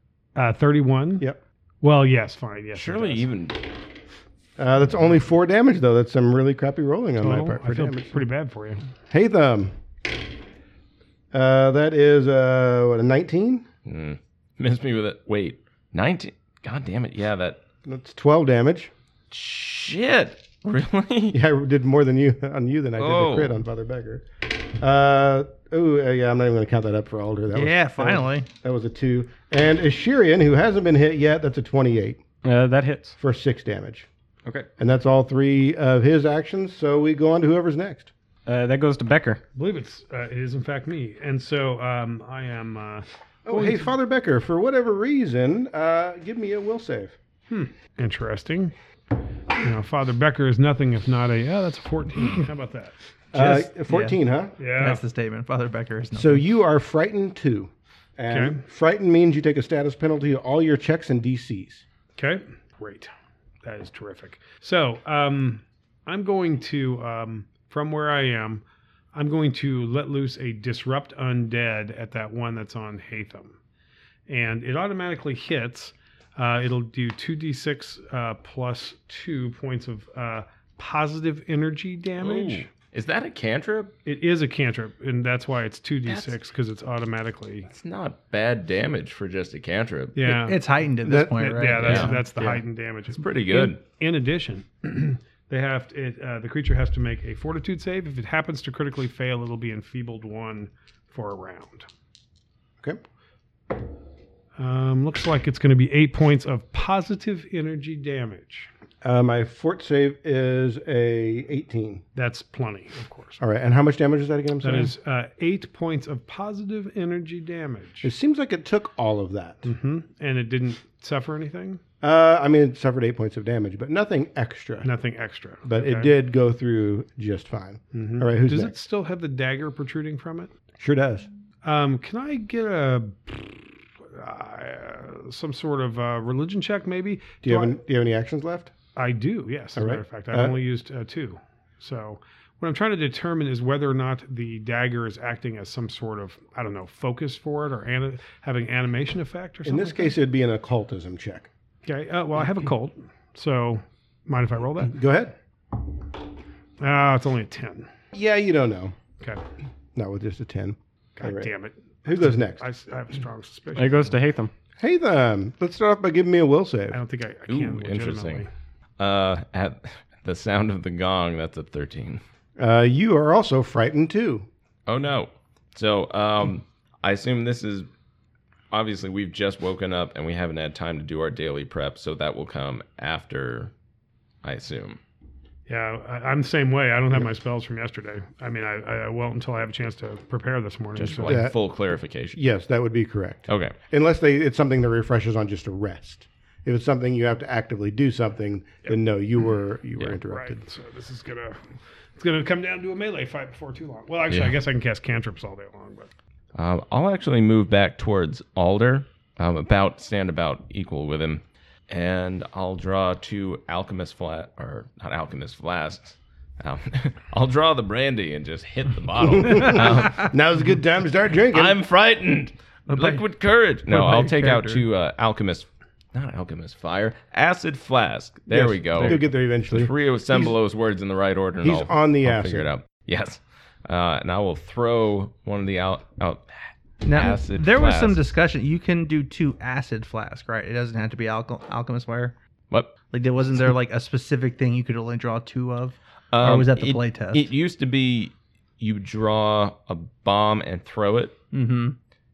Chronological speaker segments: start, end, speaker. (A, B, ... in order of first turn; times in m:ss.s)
0:00.4-0:01.2 A
0:01.8-0:03.3 A
0:02.7-0:03.6 B
0:04.6-0:08.2 C
0:07.2-0:08.8 A
0:09.1-0:09.8 C
0:11.3-0:13.7 C
0:13.9-0:17.6 B
0:17.8-0:18.9 C
0:19.3-0:21.4 B
0:21.3-0:24.2 C
0:23.0-0:23.6 B
0:24.8-0:32.2 C
0:27.5-0:28.5 D
0:32.4-0:33.2 E
0:33.2-0:34.1 C
0:34.8-0:38.1 C
0:38.5-0:39.4 E
0:39.6-0:43.9 A
0:43.5-0:47.2 C
0:47.5-0:48.7 A
0:49.6-0:52.9 A
0:53.3-0:54.6 C
0:53.3-0:54.2 D
0:54.6-0:55.0 A
0:54.8-0:56.4 D
0:56.2-1:01.8 C
0:58.3-0:58.6 A
1:02.2-1:03.1 A
1:03.6-1:08.6 A
1:09.1-1:13.6 A
1:14.3-1:22.7 A
1:22.2-1:23.9 B
1:24.1-1:27.7 A
1:26.1-1:26.4 B
1:27.7-1:30.2 B
1:30.2-1:30.6 A
1:30.2-1:32.3 D
1:31.0-1:31.4 C
1:31.4-1:41.9 A
1:31.8-1:33.8 B
1:44.6-1:48.7 A
1:49.0-1:52.0 C
1:52.2-1:53.4 A
1:53.4-1:54.9 C
1:54.6-1:58.1 A
1:58.0-1:59.7 C
1:59.6-2:01.8 A
2:02.0-2:04.9 C
2:04.8-2:06.1 A
2:05.6-2:08.7 C
2:07.9-2:10.5 A
2:10.8-2:11.3 C
2:11.6-2:17.8 A
2:17.4-2:18.7 C
2:19.0-2:30.2 A
2:19.8-2:20.6 C
2:29.6-2:31.5 C
2:31.8-2:35.0 A
2:34.9-2:35.3 C
2:36.8-2:37.9 A
2:38.1-2:39.0 C
2:40.0-2:41.5 C
2:41.2-2:44.2 A
2:42.0-2:42.7 C
2:43.8-2:44.5 E
2:44.8-2:47.0 C
2:46.9-2:48.5 A
2:47.5-2:48.5 B
2:49.0-2:52.2 B
2:52.6-2:54.5 C
2:54.9-2:57.9 B
2:58.7-3:03.7 B
3:04.4-3:05.0 B
3:05.7-3:11.5 A
3:11.0-3:12.4 B
3:11.2-3:11.6 C
3:12.4-3:20.6 C
3:13.5-3:13.8 B
3:20.1-3:26.1 A
3:24.3-3:24.6 B
3:26.6-3:40.4 B
3:39.4-3:41.8 C
3:41.5-3:58.2 B
3:42.9-3:43.2 D
3:43.9-3:44.8 D
3:48.5-3:50.5 C
3:51.6-3:52.7 C
3:57.0-4:02.3 D
4:03.1-4:07.5 D
4:06.3-4:11.4 B
4:11.5-4:12.0 D